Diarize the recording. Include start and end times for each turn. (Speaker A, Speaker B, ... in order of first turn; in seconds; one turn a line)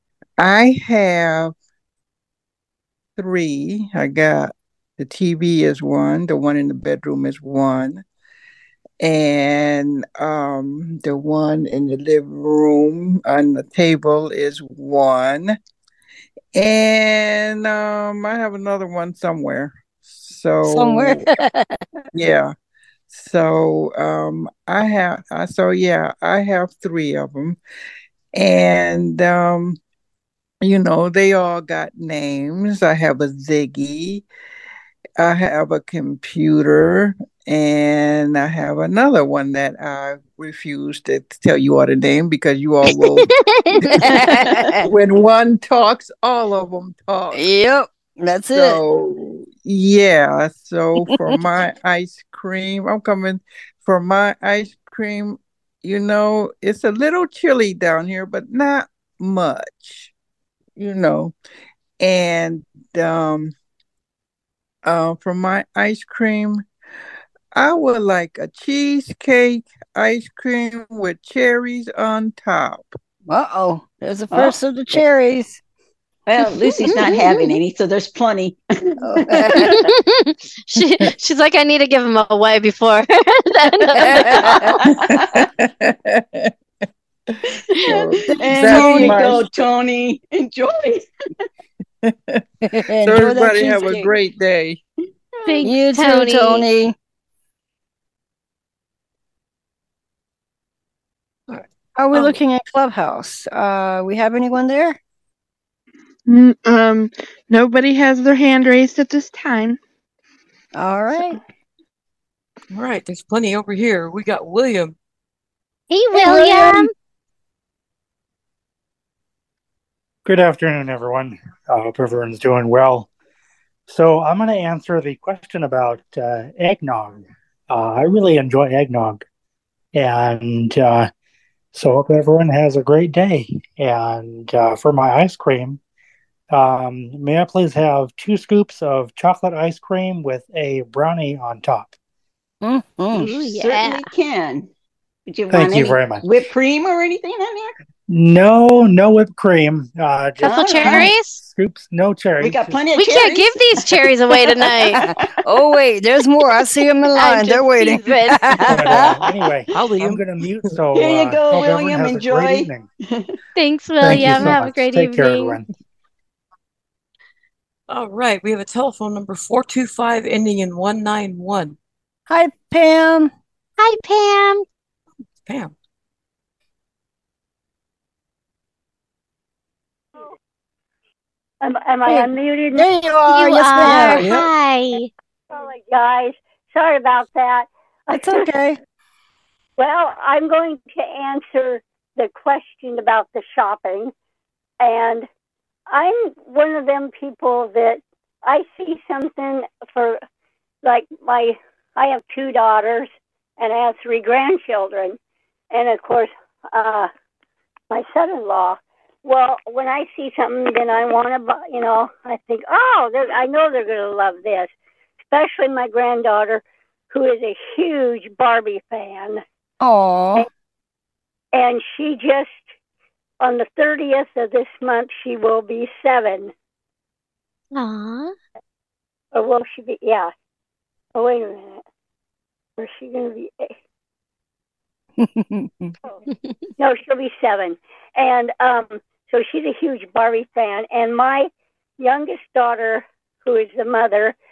Speaker A: 0.4-1.5
Speaker A: 3.2-8.0
Speaker A: 9.0-15.6
Speaker A: 16.5-21.3
Speaker B: 20.6-21.8
Speaker A: 22.1-22.5
Speaker A: 23.1-27.6
Speaker A: 28.3-29.8
Speaker A: 30.6-34.2
Speaker A: 35.2-43.3
Speaker C: 43.2-43.9
Speaker B: 43.9-44.9
Speaker A: 44.8-47.4
Speaker B: 47.3-48.8
Speaker A: 48.5-60.1
Speaker A: 60.8-61.3
Speaker A: 62.0-63.5
Speaker A: 64.8-66.6
Speaker A: 67.5-72.9
Speaker B: 73.3-75.6
Speaker D: 74.3-74.6
Speaker D: 76.3-79.7
Speaker B: 79.0-79.7
Speaker C: 79.8-84.7
Speaker B: 84.0-84.6
Speaker D: 84.8-85.4
Speaker A: 85.2-86.5
Speaker A: 87.8-89.5
Speaker D: 87.8-91.1
Speaker B: 88.3-89.4
Speaker A: 92.0-92.4
Speaker B: 92.7-94.1
Speaker A: 93.0-94.8
Speaker C: 95.4-96.7
Speaker B: 95.6-96.9
Speaker E: 101.5-102.3
Speaker B: 102.0-105.0
Speaker F: 106.3-109.8
Speaker B: 110.7-111.4
Speaker E: 112.7-114.9
Speaker C: 115.9-116.9
Speaker B: 116.1-116.9
Speaker G: 120.2-123.1
Speaker G: 123.9-129.2
Speaker G: 129.9-131.1
Speaker G: 131.7-135.8
Speaker G: 136.5-141.9
Speaker B: 142.6-143.3
Speaker C: 143.1-144.1
Speaker D: 143.2-144.7
Speaker D: 145.3-147.7
Speaker G: 145.5-146.2
Speaker G: 148.1-152.8
Speaker D: 150.4-151.1
Speaker C: 150.4-151.4
Speaker D: 152.4-155.3
Speaker C: 152.9-155.0
Speaker B: 155.0-159.1
Speaker C: 157.1-158.5
Speaker G: 158.5-162.8
Speaker E: 159.8-160.2
Speaker D: 160.9-163.3
Speaker C: 163.6-165.6
Speaker G: 164.0-165.6
Speaker E: 167.9-171.7
Speaker B: 172.3-173.3
Speaker C: 173.8-174.6
Speaker E: 175.4-175.7
Speaker H: 181.6-182.9
Speaker B: 182.1-184.4
Speaker C: 183.3-185.1
Speaker H: 185.5-188.4
Speaker B: 188.1-188.8
Speaker H: 189.8-194.1
Speaker H: 194.8-195.3
Speaker H: 195.9-200.2
Speaker H: 200.8-205.2
Speaker H: 205.7-207.1
Speaker H: 207.9-214.7
Speaker H: 215.3-219.4
Speaker B: 219.8-220.5
Speaker H: 221.5-222.7
Speaker H: 223.4-226.5
Speaker C: 227.7-228.3
Speaker H: 229.3-230.3
Speaker H: 231.1-231.8
Speaker H: 232.8-233.7
Speaker B: 235.2-235.9
Speaker H: 236.8-244.3